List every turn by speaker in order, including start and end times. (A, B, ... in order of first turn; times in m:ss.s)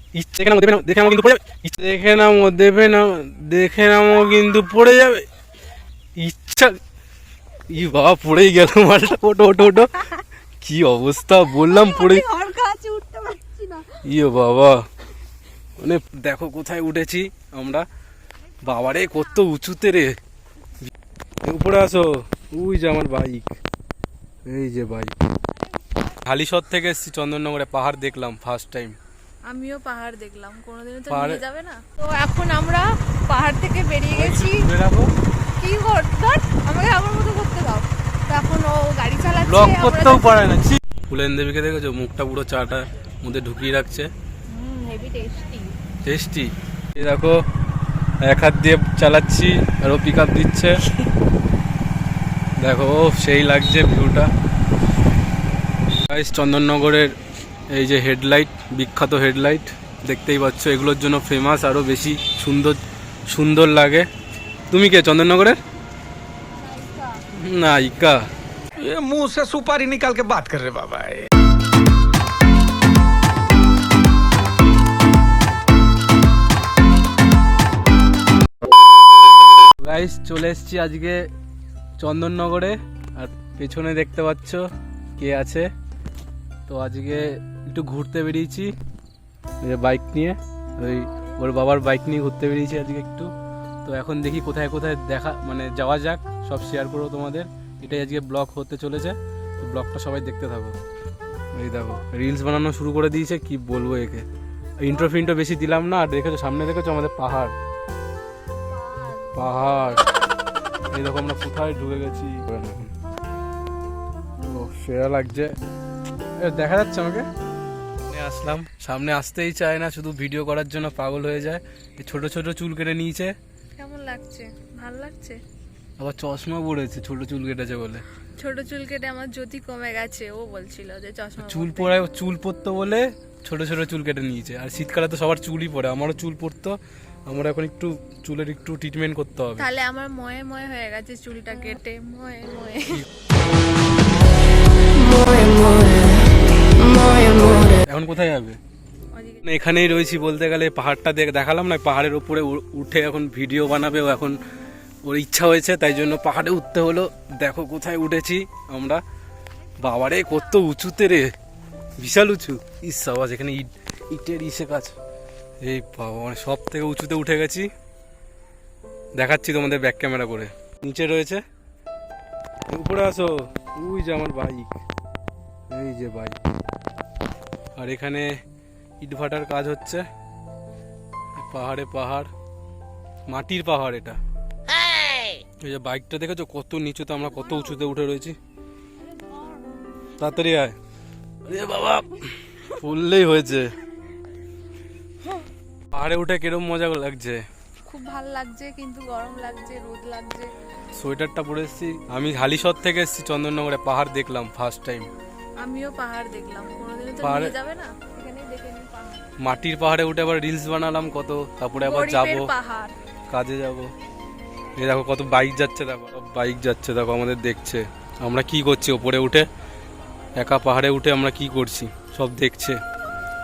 0:00.1-0:05.2 A
0:06.2-0:06.8 A
0:07.7-0:10.0 A
0:10.6-0:12.2 A
0:11.5-0:14.0 B
0:14.0-0:14.8 A
0:15.8-0:17.8 A
0:18.6-0:20.2 A
0:21.4-0:23.6 A
0:24.4-0:25.1 A
0:26.2-0:29.0 A
0:29.5-0:34.7 B
0:31.1-0:31.4 A
0:34.1-0:35.1 A
0:35.6-0:40.5 B
0:39.4-0:44.1 A
0:44.5-0:45.8 B
0:46.0-0:47.4 A
0:48.2-0:50.8 A
0:52.6-0:54.3 A
0:56.1-0:57.1 A
0:57.7-1:04.1 A
1:04.7-1:05.6 A
1:06.6-1:07.2 B
1:07.4-1:08.2 A
1:08.8-1:11.3 C
1:19.8-1:21.3 A
1:22.0-1:25.7 A
1:26.7-1:28.7 A
1:29.6-1:33.3 A
1:33.8-1:40.8 A
1:41.5-1:44.2 A
1:44.8-1:47.6 A
1:48.8-1:49.3 B
1:49.3-1:50.1 A
1:50.9-1:52.9 A
1:54.4-1:55.6 A
1:56.4-1:57.3 A
1:58.1-2:03.3 A
2:03.8-2:05.4 B
2:06.0-2:08.0 A
2:08.4-2:12.0 B
2:11.4-2:19.6 A
2:19.6-2:23.0 B
2:24.9-2:26.2 B
2:26.8-2:27.4 B
2:27.6-2:28.6 A
2:29.1-2:29.4 B
2:29.4-2:34.4 A
2:35.0-2:39.0 A
2:39.8-2:41.3 A
2:42.0-2:45.0 A
2:45.6-2:47.7 A
2:49.1-2:51.4 A
2:52.7-2:54.8 A
2:55.7-2:56.4 A
2:57.8-2:58.3 A
2:59.0-3:00.0 A
3:01.4-3:02.3 A
3:03.3-3:04.2 A
3:05.6-3:08.4 A
3:10.2-3:10.7 A
3:11.4-3:13.7 A
3:15.9-3:17.4 A
3:17.9-3:20.5 B
3:20.9-3:25.1 A
3:25.6-3:29.2 B
3:27.2-3:27.5 A
3:29.4-3:32.5 A
3:31.8-3:32.9 B
3:33.3-3:33.9 A
3:34.8-3:39.5 A
3:40.4-3:42.8 A